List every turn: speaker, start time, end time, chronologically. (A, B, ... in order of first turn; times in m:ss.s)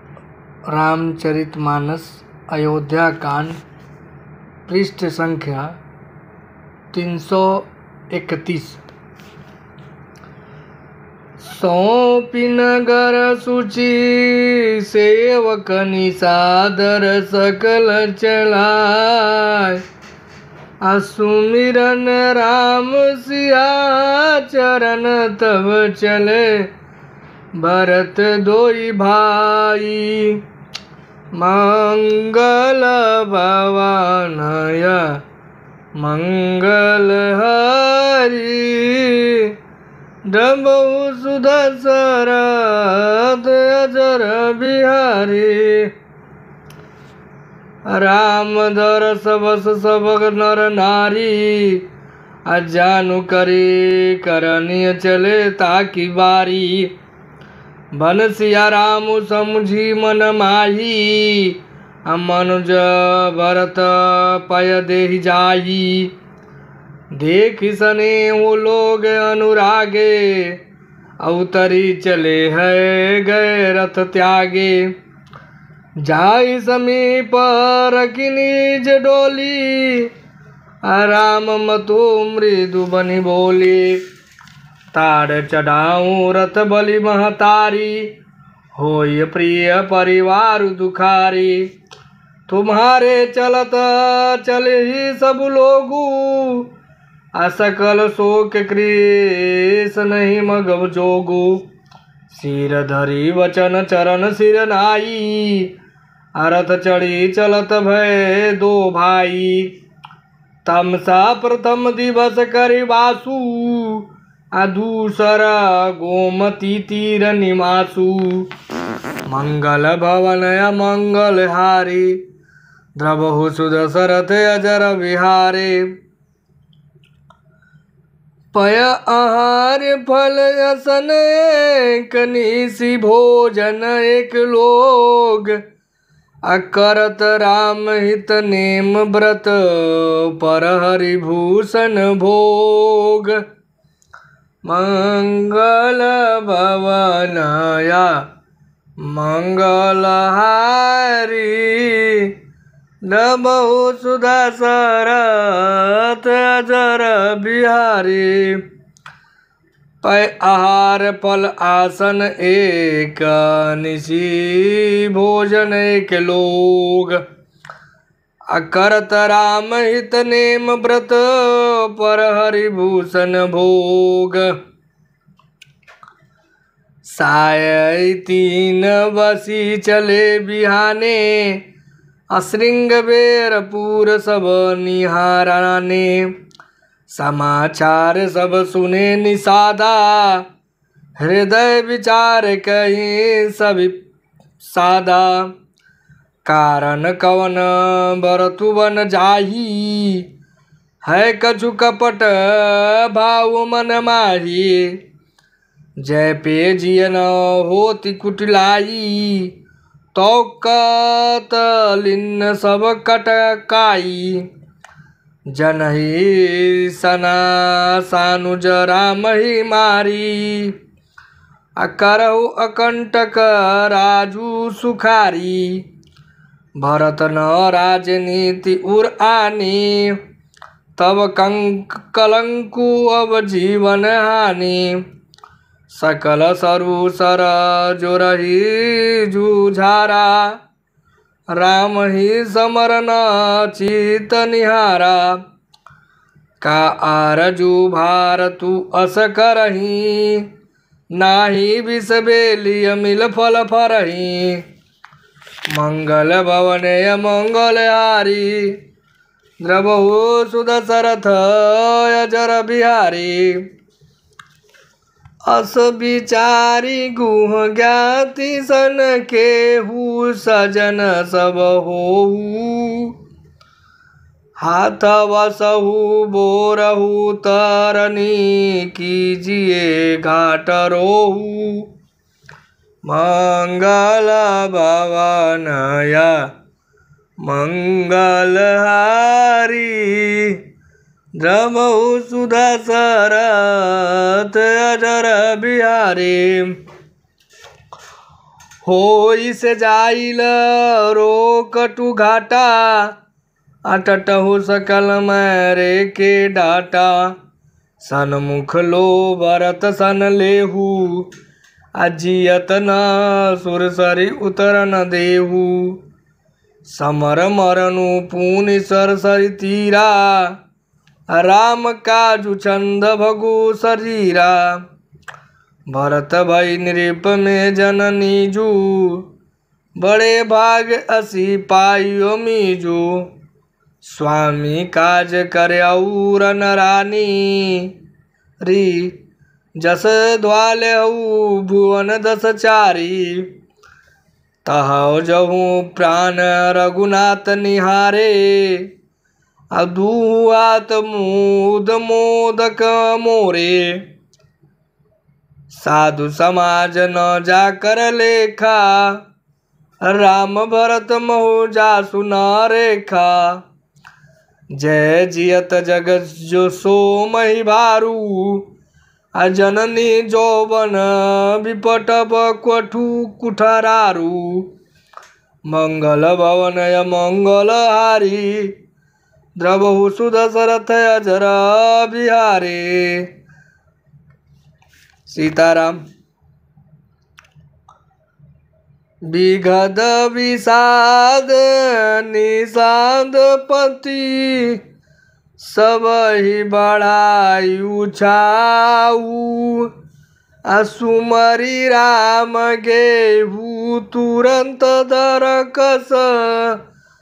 0:00.7-0:03.6 A
0:04.7-0:05.8 A
0:06.9-0:08.8 A
0:11.4-0:19.8 A
0:20.8-0:26.7 A
0:27.5-0:30.4 A
0:31.3-0:35.2 A
0:36.0-0:39.5 A
0:40.2-0:45.9 A
0:47.9-0:51.8 A
0:52.4-0:56.9 A
0:57.9-1:06.1 A
1:07.1-1:10.6 A
1:11.2-1:14.9 A
1:16.0-1:20.1 A
1:20.8-1:24.0 A
1:24.9-1:28.1 A
1:28.7-1:31.7 A
1:32.5-1:36.7 A
1:37.3-1:41.6 A
1:42.3-1:45.7 A
1:46.4-1:49.7 A
1:50.6-1:58.5 A
1:59.2-2:02.2 A
2:03.0-2:05.9 A
2:08.5-2:15.6 A
2:16.4-2:23.4 A
2:24.6-2:28.3 A
2:29.0-2:32.4 A
2:33.0-2:38.6 A
2:40.0-2:47.2 A
2:48.5-2:54.6 A
2:57.0-3:01.6 A
3:02.3-3:06.3 A
3:07.1-3:10.4 A
3:11.2-3:13.9 A
3:14.6-3:15.5 A
3:16.4-3:20.3 A
3:21.0-3:25.0 A
3:26.0-3:29.5 A
3:30.1-3:34.5 A
3:35.5-3:40.7 A
3:41.8-3:45.8 A
3:46.8-3:50.2 A
3:51.0-3:55.0 A
3:55.9-4:00.6 A
4:01.5-4:05.4 A
4:06.6-4:10.5 A
4:11.1-4:14.6 A
4:15.7-4:18.8 A
4:19.6-4:23.6 A
4:25.4-4:33.2 A
4:34.6-4:41.9 A
4:43.0-4:46.5 A
4:47.4-4:50.6 A
4:51.4-4:56.8 A
4:58.8-5:03.1 A
5:03.8-5:07.3 A
5:08.0-5:11.3 A
5:12.0-5:16.0 A
5:16.8-5:20.6 A
5:21.3-5:24.8 A
5:25.9-5:29.3 A
5:30.0-5:33.3 A
5:34.0-5:37.9 A
5:38.6-5:39.2 A
5:39.8-5:43.5 A
5:44.6-5:48.9 A
5:49.7-5:54.0 A
5:55.7-5:59.2 A
6:00.0-6:03.6 A
6:04.7-6:08.7 A
6:09.3-6:14.7 A
6:15.7-6:18.7 A
6:19.6-6:23.3 A
6:25.3-6:26.0 A
6:29.2-6:34.8 A
6:35.6-6:39.9 A
6:40.7-6:46.8 A